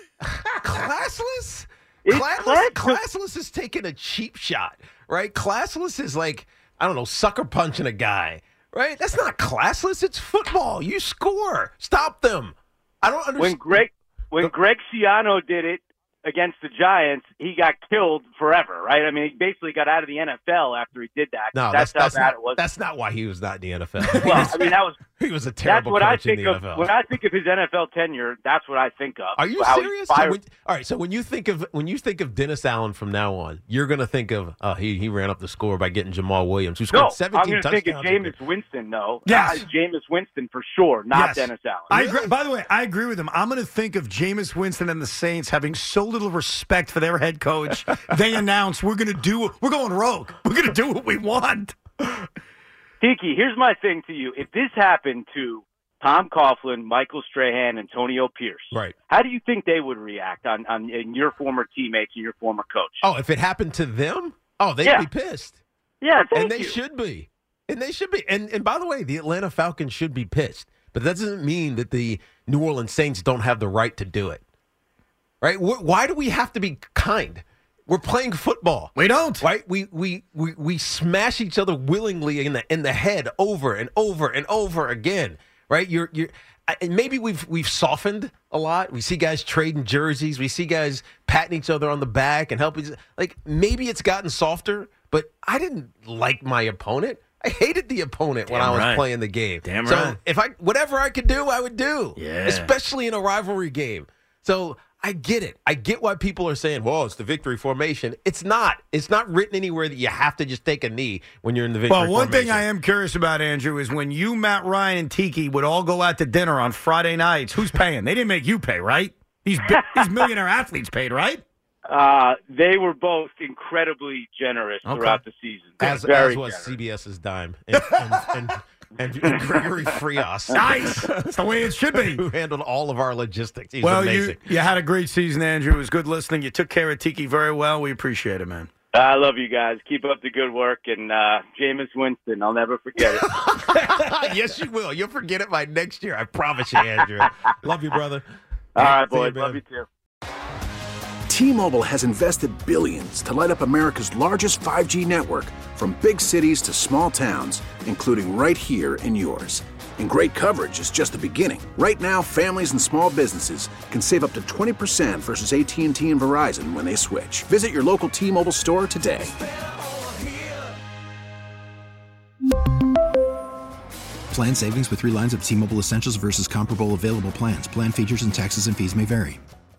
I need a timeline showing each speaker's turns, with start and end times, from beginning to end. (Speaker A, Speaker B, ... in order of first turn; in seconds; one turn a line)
Speaker A: 0.3-13.8
Speaker B: 2.0-3.0
Speaker B: 13.4-22.6
Speaker A: 21.5-26.9
Speaker B: 24.1-25.0
Speaker B: 25.6-30.4
Speaker A: 29.4-38.4
Speaker B: 36.9-42.1
Speaker C: 39.2-39.7
Speaker C: 41.1-51.8
Speaker B: 53.0-63.0
Speaker A: 58.7-59.0
Speaker A: 63.0-65.6
Speaker B: 66.0-66.8
Speaker A: 66.3-74.4
Speaker A: 75.4-112.7
Speaker C: 79.0-79.5
Speaker C: 98.5-99.0
Speaker C: 99.6-100.2
Speaker C: 102.2-102.7
Speaker C: 111.9-121.4
Speaker B: 119.7-120.2
Speaker B: 121.9-126.8
Speaker C: 124.8-125.2
Speaker A: 125.8-134.5
Speaker C: 130.5-132.2
Speaker C: 133.8-138.7
Speaker B: 138.9-143.8
Speaker A: 143.0-148.3
Speaker B: 148.8-149.9
Speaker A: 148.8-149.6
Speaker D: 151.3-169.3
Speaker E: 174.3-179.4